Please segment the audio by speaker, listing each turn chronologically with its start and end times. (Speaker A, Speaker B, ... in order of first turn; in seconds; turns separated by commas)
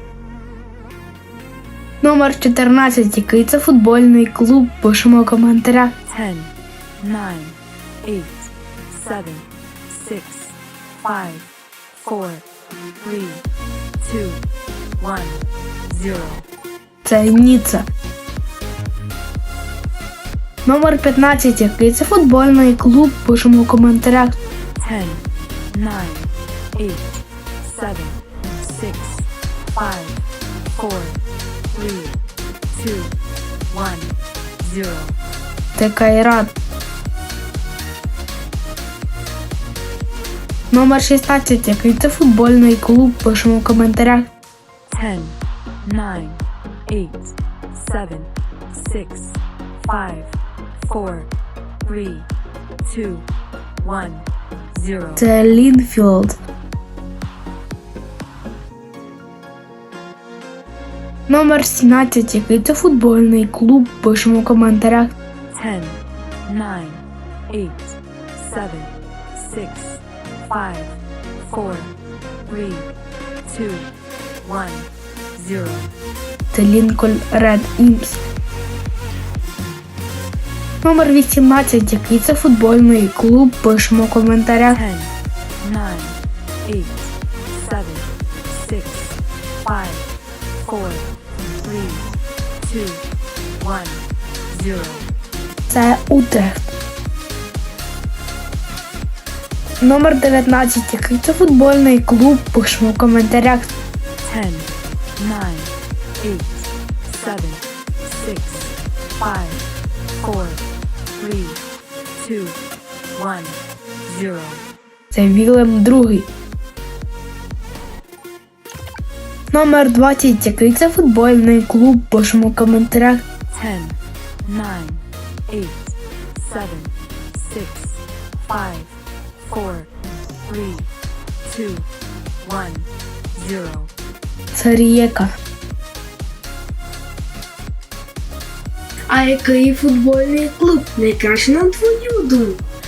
Speaker A: 2.0-5.9, Speaker B: 6.1-12.4, Speaker B: 13.0-13.4, Speaker B: 14.0-14.4, Speaker B: 15.0-16.4, Speaker A: 17.1-17.9, Speaker A: 20.6-24.4, Speaker B: 24.8-31.2, Speaker B: 31.7-32.2, Speaker B: 32.7-33.1, Speaker B: 33.7-35.2, Speaker A: 35.8-36.5, Speaker A: 40.7-44.3, Speaker B: 44.9-51.3, Speaker B: 51.8-52.3, Speaker B: 52.8-53.3, Speaker B: 53.8-55.3, Speaker A: 55.2-56.4, Speaker A: 61.3-65.1, Speaker B: 65.5-71.9, Speaker B: 72.5-72.9, Speaker B: 73.5-73.9, Speaker B: 74.4-75.9, Speaker A: 76.5-78.2, Speaker A: 80.8-84.8, Speaker B: 84.7-90.1, Speaker B: 90.6-92.1, Speaker B: 92.6-93.0, Speaker B: 93.6-95.1, Speaker A: 95.7-96.7, Speaker A: 99.8-103.7, Speaker B: 104.2-109.6, Speaker B: 110.2-110.6, Speaker B: 111.2-111.6, Speaker B: 112.2-112.6, Speaker B: 113.1-114.6, Speaker A: 115.1-116.3, Speaker A: 119.5-123.2, Speaker B: 123.5-129.9, Speaker B: 130.4-130.9, Speaker B: 131.4-131.9, Speaker B: 132.4-133.9, Speaker A: 134.5-135.3, Speaker C: 139.1-142.6